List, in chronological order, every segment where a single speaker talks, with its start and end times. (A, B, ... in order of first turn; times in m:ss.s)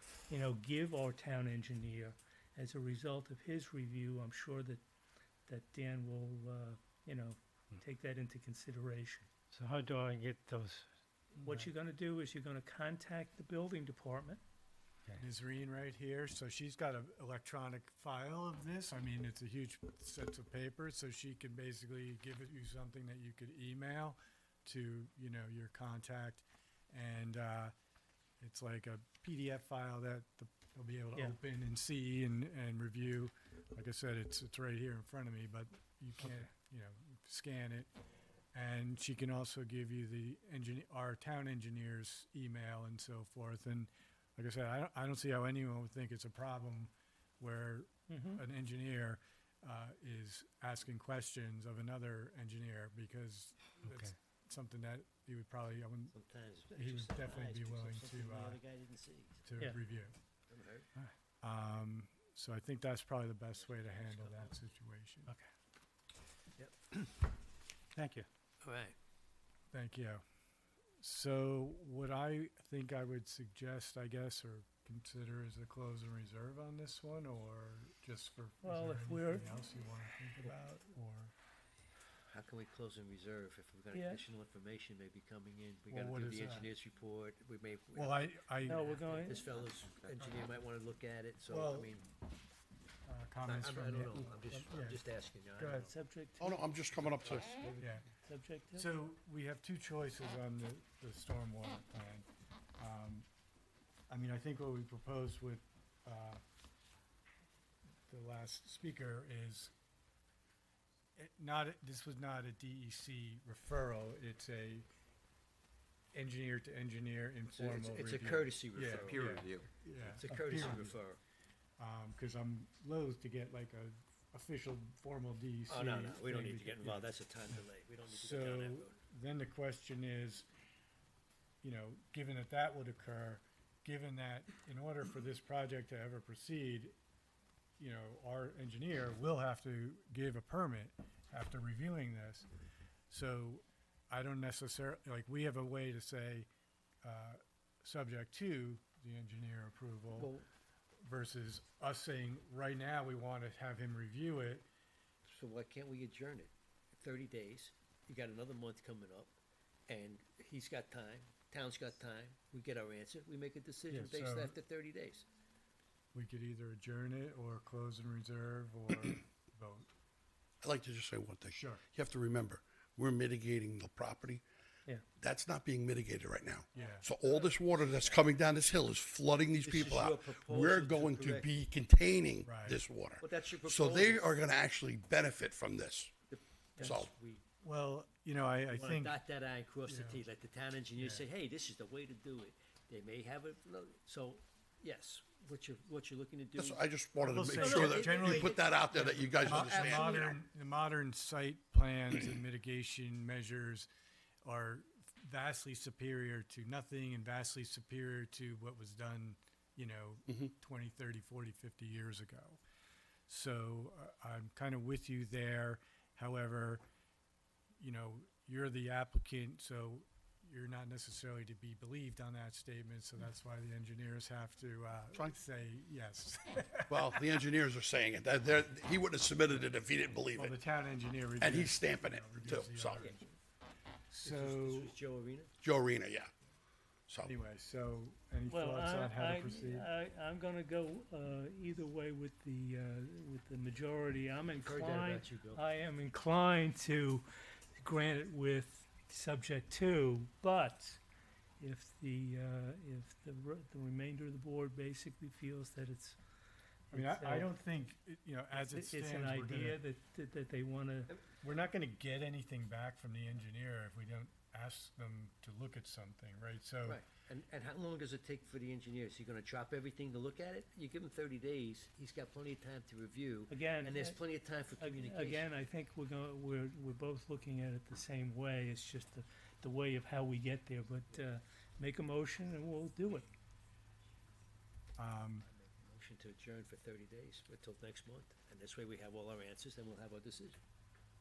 0:00.3-0:04.8 A
0:05.5-0:09.3 A
0:09.5-0:10.9 B
0:11.4-0:14.4 A
0:15.2-0:27.7 C
0:28.4-0:37.9 C
0:38.5-0:56.1 C
0:48.1-0:48.4 A
0:53.8-0:54.1 B
0:56.1-0:59.4 D
0:56.7-0:58.6 C
0:59.4-1:00.1 C
1:00.5-1:00.9 D
1:01.4-1:05.3 C
1:03.6-1:04.6 D
1:06.6-1:07.1 D
1:08.0-1:08.3 B
1:08.6-1:09.0 D
1:09.7-1:10.2 C
1:11.0-1:21.3 C
1:18.6-1:19.6 A
1:22.3-1:32.0 D
1:23.9-1:24.2 A
1:25.9-1:26.7 C
1:27.9-1:29.0 C
1:28.6-1:29.4 A
1:31.5-1:31.9 C
1:33.0-1:35.0 C
1:33.4-1:35.9 D
1:35.5-1:35.9 C
1:35.9-1:36.6 A
1:36.4-1:37.6 E
1:37.1-1:37.9 D
1:37.8-1:38.0 C
1:38.2-1:38.9 A
1:38.8-1:42.3 C
1:42.8-1:43.3 C
1:44.1-1:46.4 C
1:48.1-1:49.7 C
1:51.2-1:54.9 C
1:56.1-2:01.0 C
1:57.5-1:59.4 D
1:59.2-1:59.6 B
2:00.0-2:01.2 D
2:01.8-2:07.1 C
2:05.7-2:09.0 D
2:08.1-2:10.5 C
2:11.6-2:17.0 C
2:17.8-2:22.5 C
2:23.1-2:26.5 C
2:27.0-2:30.4 C
2:30.1-2:30.5 D
2:31.0-2:34.7 C
2:35.2-2:39.4 D
2:39.9-2:45.3 D
2:43.9-2:44.6 C
2:46.1-2:49.9 C
2:50.6-2:54.4 E
2:51.5-2:51.8 C
2:55.2-3:06.2 E
2:56.7-2:57.1 C
2:56.8-2:58.4 D
2:59.6-3:01.6 D
3:02.4-3:02.8 C
3:03.2-3:04.4 D
3:06.3-3:07.4 D
3:06.8-3:07.1 E
3:07.6-3:09.2 C
3:08.7-3:20.4 D
3:09.9-3:10.2 C
3:11.0-3:11.2 C
3:16.6-3:20.2 E
3:17.2-3:23.9 C
3:24.4-3:32.6 C
3:33.3-3:36.8 C
3:37.8-3:47.2 C
3:46.9-3:50.6 E
3:50.4-3:53.4 C
3:51.4-3:53.1 E
3:52.9-3:53.2 D
3:54.1-3:55.0 C
3:54.1-3:55.5 D
3:55.6-3:56.3 E
3:57.1-3:57.3 E
3:57.2-3:59.9 C
3:58.5-4:11.0 A
4:04.6-4:05.6 D
4:11.6-4:16.2 A
4:16.9-4:17.5 A
4:16.9-4:19.8 C
4:18.5-4:21.2 A
4:21.4-4:27.0 C
4:26.8-4:35.5 D
4:33.5-4:34.2 A
4:34.8-4:43.3 A
4:45.0-4:45.5 C
4:45.5-4:50.6 D